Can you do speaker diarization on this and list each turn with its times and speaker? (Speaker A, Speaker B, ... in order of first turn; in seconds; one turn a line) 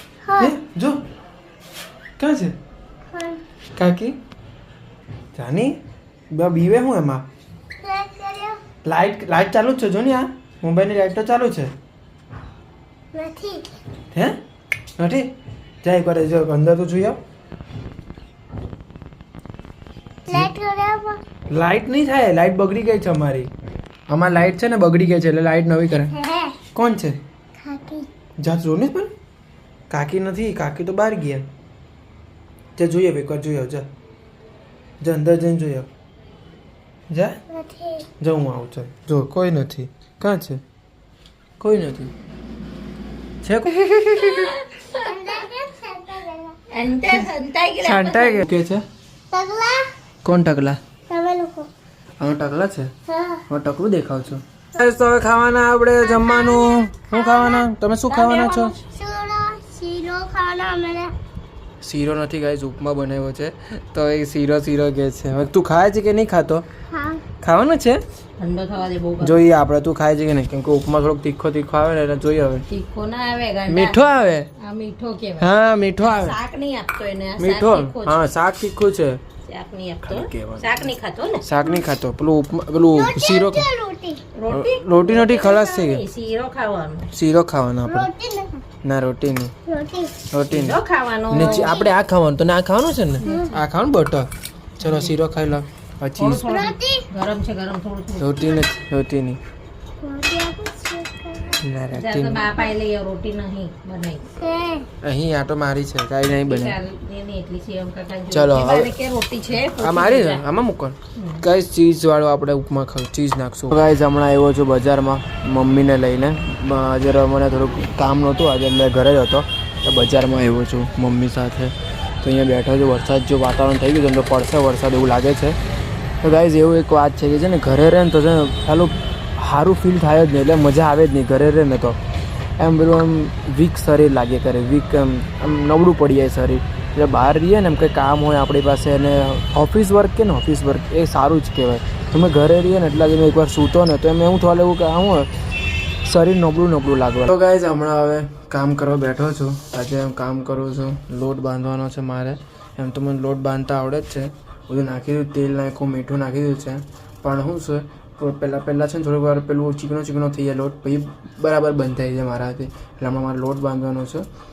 Speaker A: 0.2-0.5
Speaker B: 0.3-1.0
Speaker B: 2.2-2.5
Speaker A: 3.1-3.4
Speaker B: 3.8-4.2
Speaker B: 5.3-5.8
Speaker B: 6.3-7.2
Speaker A: 7.8-8.6
Speaker B: 8.8-11.7
Speaker A: 13.1-13.7
Speaker B: 14.1-14.4
Speaker B: 15.0-15.3
Speaker B: 15.8-17.2
Speaker A: 20.3-21.2
Speaker B: 21.5-23.5
Speaker B: 24.1-26.2
Speaker A: 26.1-26.6
Speaker B: 26.7-27.2
Speaker A: 27.6-28.1
Speaker B: 28.4-29.1
Speaker B: 29.9-31.5
Speaker B: 32.8-33.9
Speaker B: 35.0-35.9
Speaker B: 37.1-37.4
Speaker A: 37.5-38.1
Speaker B: 38.2-40.6
Speaker B: 41.6-42.1
Speaker B: 43.4-44.6
Speaker C: 44.3-45.3
Speaker A: 45.0-46.6
Speaker C: 46.7-48.5
Speaker B: 47.8-48.8
Speaker A: 49.3-49.9
Speaker B: 50.2-50.8
Speaker A: 51.1-51.7
Speaker B: 52.2-52.9
Speaker A: 53.1-53.4
Speaker B: 53.5-58.8
Speaker A: 56.1-57.7
Speaker C: 58.1-58.8
Speaker A: 58.4-61.1
Speaker B: 61.8-66.7
Speaker A: 66.9-67.3
Speaker B: 67.4-68.0
Speaker C: 68.4-69.4
Speaker B: 69.2-72.7
Speaker C: 72.7-74.0
Speaker B: 73.7-74.5
Speaker C: 74.6-78.2
Speaker B: 75.4-76.4
Speaker B: 77.4-79.2
Speaker C: 79.4-81.5
Speaker B: 80.0-80.9
Speaker B: 81.4-83.8
Speaker A: 82.9-84.3
Speaker C: 84.3-87.1
Speaker B: 84.5-86.0
Speaker B: 87.1-88.1
Speaker A: 87.9-88.6
Speaker B: 88.8-89.5
Speaker A: 89.7-90.3
Speaker B: 90.3-90.8
Speaker C: 90.5-91.8
Speaker B: 91.3-96.5
Speaker A: 91.4-91.7
Speaker C: 93.2-93.6
Speaker C: 94.8-95.2
Speaker C: 96.2-98.7
Speaker A: 96.4-97.1
Speaker B: 98.2-99.4
Speaker A: 100.0-101.6
Speaker B: 101.6-102.6
Speaker C: 101.9-104.4
Speaker A: 104.4-104.9
Speaker B: 105.0-106.8
Speaker C: 106.4-110.5
Speaker B: 108.3-108.9
Speaker B: 109.8-125.6
Speaker C: 111.2-111.4
Speaker B: 126.2-132.0
Speaker B: 132.6-145.3
Speaker B: 146.0-164.2